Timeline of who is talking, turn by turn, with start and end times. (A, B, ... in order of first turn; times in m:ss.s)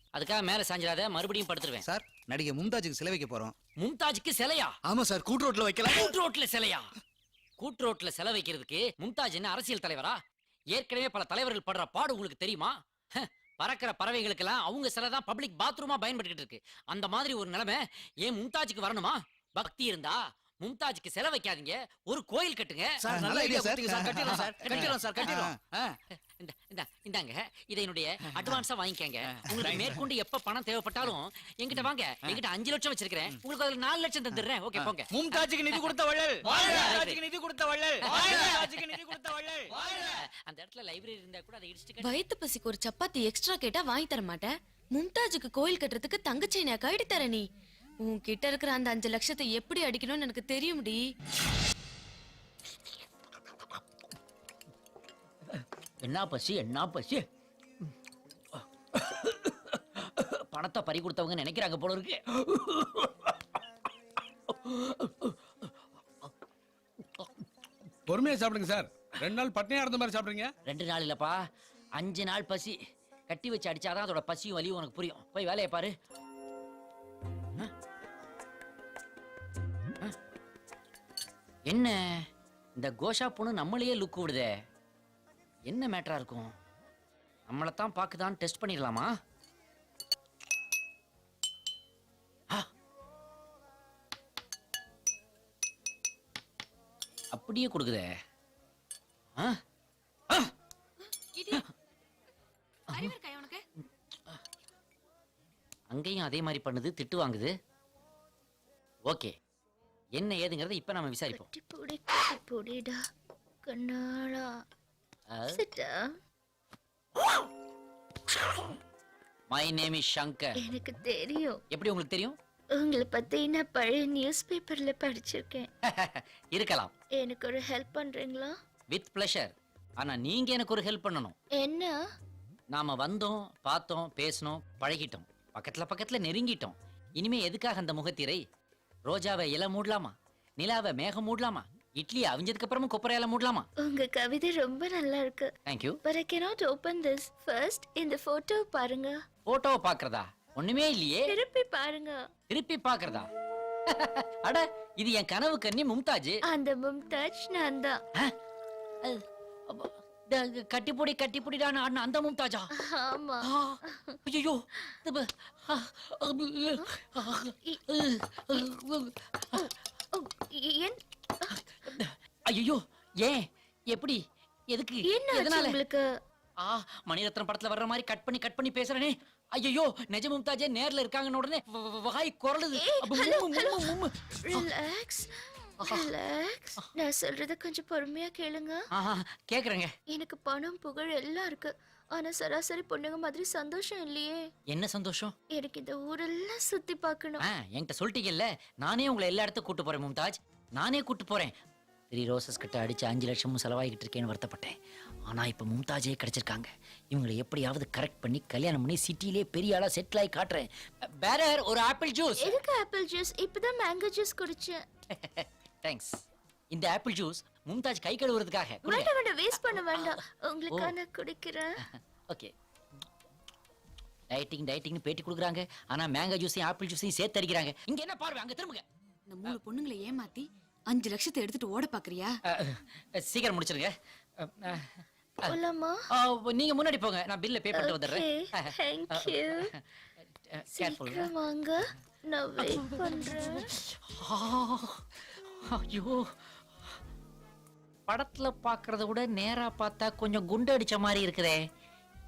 0:00.1-0:01.9 A
0:01.8-0:03.5 B
0:03.8-0:04.7 A
0:04.9-0:06.1 B
0:05.8-0:06.8 A
0:07.6-0:10.2 A
0:10.7-0:23.2 A
0:23.0-0:25.8 B
0:23.1-0:25.5 C
0:24.2-0:25.5 A
0:26.1-0:35.9 A
0:29.5-0:30.0 B
0:35.1-0:39.7 C
0:36.4-0:37.2 A
0:38.0-0:39.1 A
0:40.1-0:42.2 A
0:42.0-0:47.4 D
0:48.0-0:51.0 D
0:55.5-0:57.2 A
0:58.5-1:03.4 A
1:04.5-1:06.3 A
1:07.0-1:07.4 A
1:08.1-1:10.5 E
1:10.6-1:11.4 A
1:12.0-1:12.8 A
1:13.3-1:15.9 A
1:21.7-1:22.2 A
1:22.8-1:24.5 A
1:25.7-1:26.5 A
1:27.5-1:29.1 A
1:37.3-1:38.0 A
1:42.9-1:43.6 D
1:45.9-1:47.5 A
1:49.1-1:49.3 A
1:50.2-1:51.5 A
1:51.3-1:53.0 F
1:53.6-1:54.5 F
1:55.3-1:55.6 A
1:55.5-1:56.1 F
1:59.5-2:00.5 A
2:00.6-2:01.6 F
2:01.7-2:02.4 A
2:02.8-2:05.7 F
2:05.8-2:06.9 A
2:07.2-2:08.5 F
2:08.9-2:11.3 A
2:11.6-2:11.9 F
2:12.7-2:18.4 A
2:19.1-2:23.7 A
2:23.8-2:25.5 F
2:25.7-2:26.0 A
2:26.0-2:29.1 F
2:29.5-2:31.3 A
2:31.2-2:32.2 F
2:32.5-2:33.3 A
2:33.9-2:36.4 A
2:36.5-2:38.0 F
2:39.0-2:42.7 A
2:42.7-2:44.2 F
2:43.4-2:49.7 A
2:49.5-2:51.6 F
2:51.8-2:55.8 A
2:55.0-2:56.0 F
2:56.6-3:04.7 A
3:02.8-3:08.8 F
3:05.8-3:06.1 A
3:08.9-3:09.9 A
3:10.1-3:14.4 F
3:14.7-3:15.3 A
3:15.5-3:17.4 F
3:17.4-3:21.5 A
3:22.1-3:32.6 A
3:32.4-3:34.8 F
3:35.1-3:36.2 A
3:36.7-3:40.2 A
3:38.8-3:41.8 F
3:41.9-3:42.5 A
3:44.3-3:48.8 A
3:49.3-3:50.4 D
3:51.0-3:52.2 D
3:52.5-3:55.6 A
3:55.4-3:56.0 F
3:56.1-4:01.3 A
3:57.7-3:59.7 F
4:00.8-4:03.7 F
4:02.6-4:05.0 A
4:05.6-4:06.3 A
4:08.1-4:11.6 A